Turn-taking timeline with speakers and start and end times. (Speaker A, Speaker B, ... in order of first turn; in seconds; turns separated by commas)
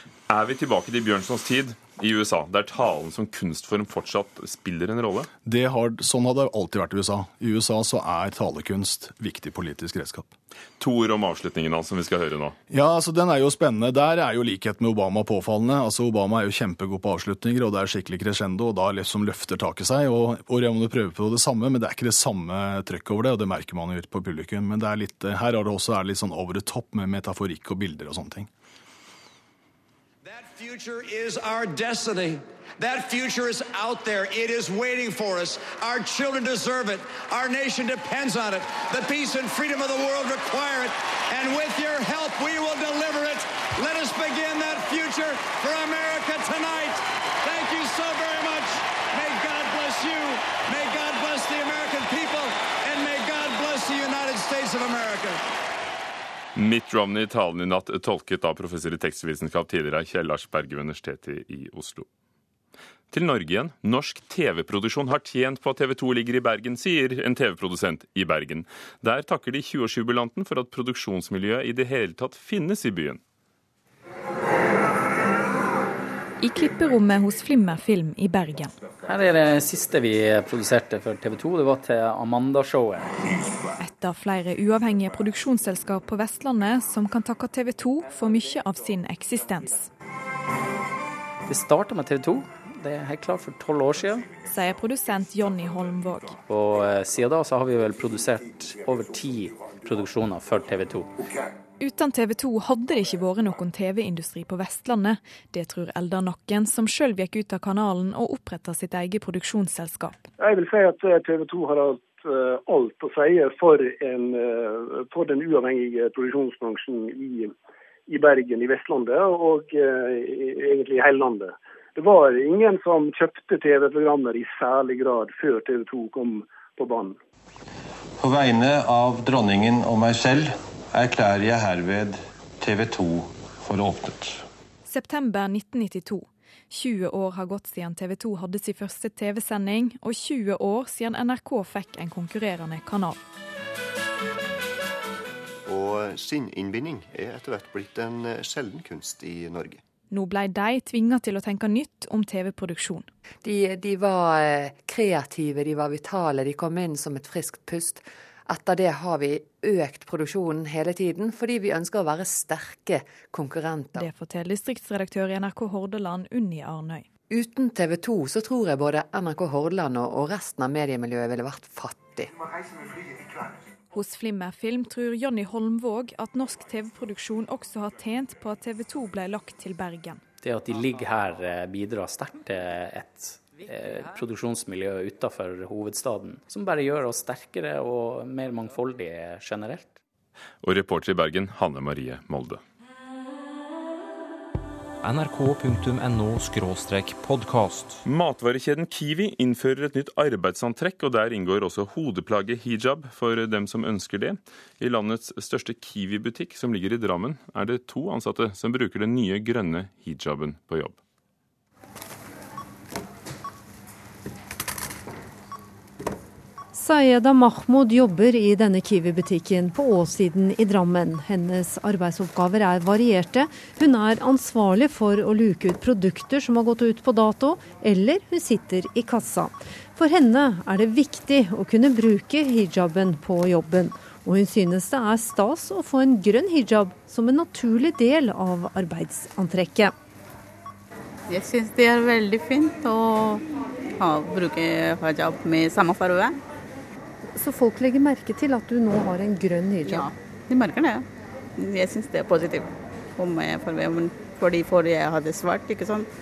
Speaker A: 0.3-5.3, Speaker B: 5.5-10.3, Speaker A: 10.8-12.6, Speaker B: 12.7-28.5, Speaker C: 30.2-55.4, Speaker A: 56.5-62.1, Speaker A: 63.1-73.2, Speaker D: 76.4-78.7, Speaker E: 79.0-83.2, Speaker D: 83.8-89.9, Speaker E: 91.5-94.3, Speaker D: 94.4-96.4, Speaker E: 96.5-101.3, Speaker D: 101.8-110.2, Speaker F: 110.4-117.5, Speaker F: 118.1-127.2, Speaker G: 128.2-134.4, Speaker D: 134.9-143.2, Speaker H: 145.7-149.8, Speaker D: 150.1-153.1, Speaker I: 153.4-164.1, Speaker D: 164.0-167.1, Speaker I: 167.3-172.3, Speaker D: 173.9-180.2, Speaker E: 180.4-190.0, Speaker A: 190.6-192.6, Speaker J: 195.0-198.0, Speaker A: 198.1-211.0, Speaker K: 216.7-239.9, Speaker L: 241.3-243.4, Speaker L: 244.0-246.4, Speaker K: 247.4-250.1, Speaker L: 249.9-251.1, Speaker L: 251.6-256.1